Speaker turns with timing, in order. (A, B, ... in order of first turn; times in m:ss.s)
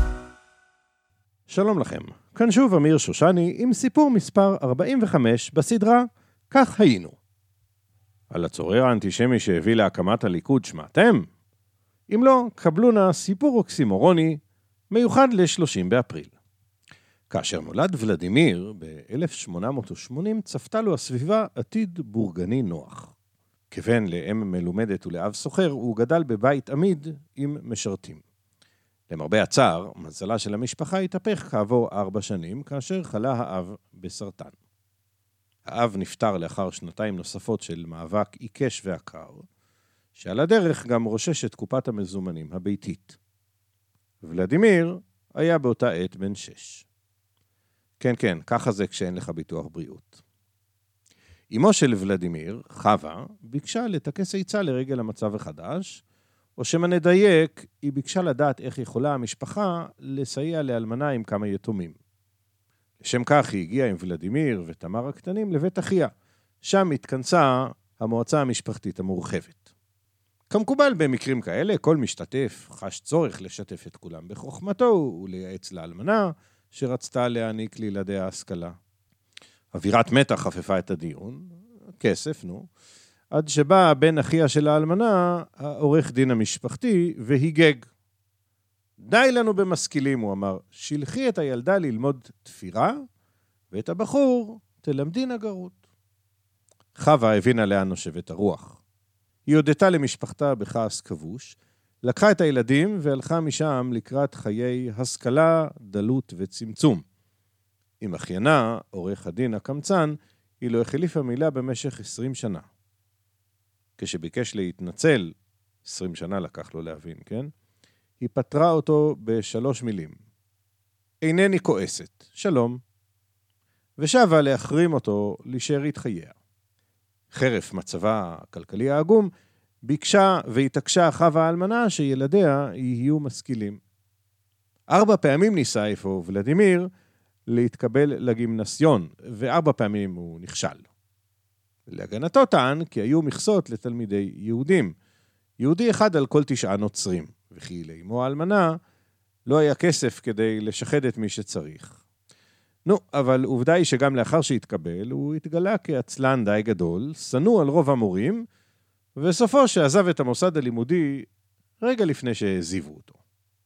0:01.5-0:07.2 A
0:08.3-0:11.3 A
0:12.1-0:16.3 A
0:17.3-0:23.1 A
0:23.7-0:28.2 A
0:29.1-0:34.5 A
0:35.6-0:39.4 A
0:40.1-0:43.2 A
0:44.2-0:46.8 A
0:48.0-0:50.2 A
0:51.5-0:56.0 A
0:56.6-1:02.0 A
1:03.0-1:06.1 A
1:06.6-1:09.6 A
1:10.5-1:18.8 A
1:19.7-1:22.7 A
1:23.3-1:27.8 A
1:29.0-1:33.0 A
1:33.7-1:35.8 A
1:36.9-1:38.8 A
1:39.4-1:47.0 A
1:48.0-1:52.6 A
1:54.0-1:57.5 A
1:58.2-2:00.2 A
2:01.2-2:02.8 A
2:04.0-2:06.3 A
2:07.3-2:09.3 A
2:09.8-2:13.8 A
2:14.9-2:16.9 A
2:17.5-2:20.9 A
2:21.9-2:25.0 A
2:25.6-2:28.8 A
2:29.4-2:32.0 A
2:32.8-2:38.4 A
2:39.2-2:41.3 A
2:41.8-2:43.2 A